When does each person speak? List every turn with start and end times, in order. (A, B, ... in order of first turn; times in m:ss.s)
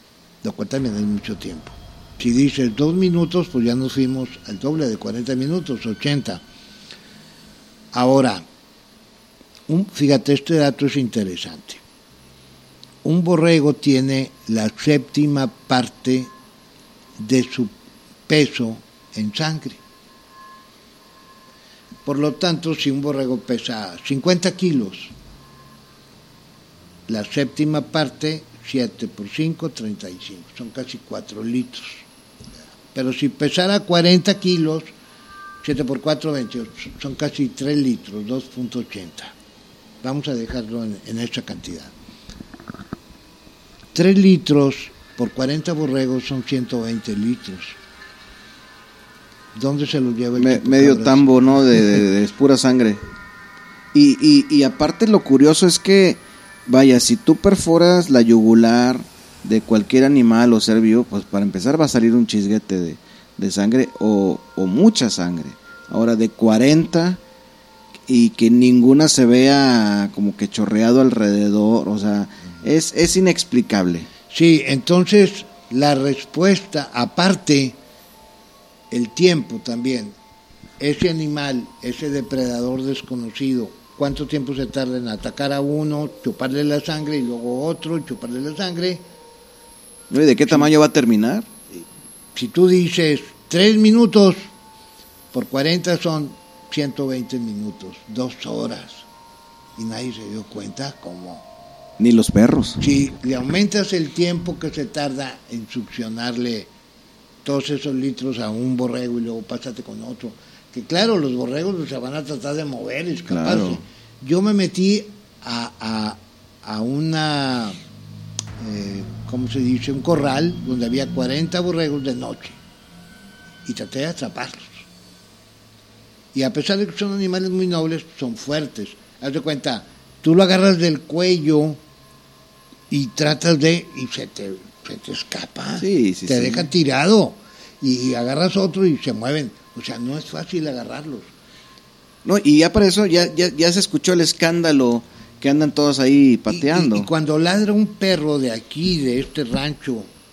0:00.4-0:06.4 A
0:07.9-0:08.4 A
0:09.7-0:11.8 A
0:13.0-0:16.3 A
0:17.2-0:17.7 A
0:18.3-0:19.8 A
0:22.0-0:25.1 A
0:27.1-0:32.0 A
0:32.9-0:34.9 A
0:35.6-0:39.4 A
0:40.0-0:41.9 A
0:44.0-0:47.8 A
0:49.5-0:52.0 A
0:50.4-0:53.1 B
0:53.9-1:07.2 B
1:08.1-1:14.1 B
1:14.3-1:17.8 A
1:18.9-1:20.2 A
1:20.8-1:29.0 A
1:30.1-1:31.5 B
1:32.4-1:34.4 A
1:35.3-1:39.0 A
1:39.8-1:41.4 A
1:42.0-1:42.8 B
1:42.8-1:46.7 A
1:47.4-1:57.8 A
1:53.3-1:53.8 B
1:58.6-2:02.6 A
2:03.7-2:04.9 A
2:06.3-2:11.8 A
2:12.9-2:21.3 A
2:15.8-2:16.7 B
2:22.2-2:27.1 B
2:26.5-2:30.1 A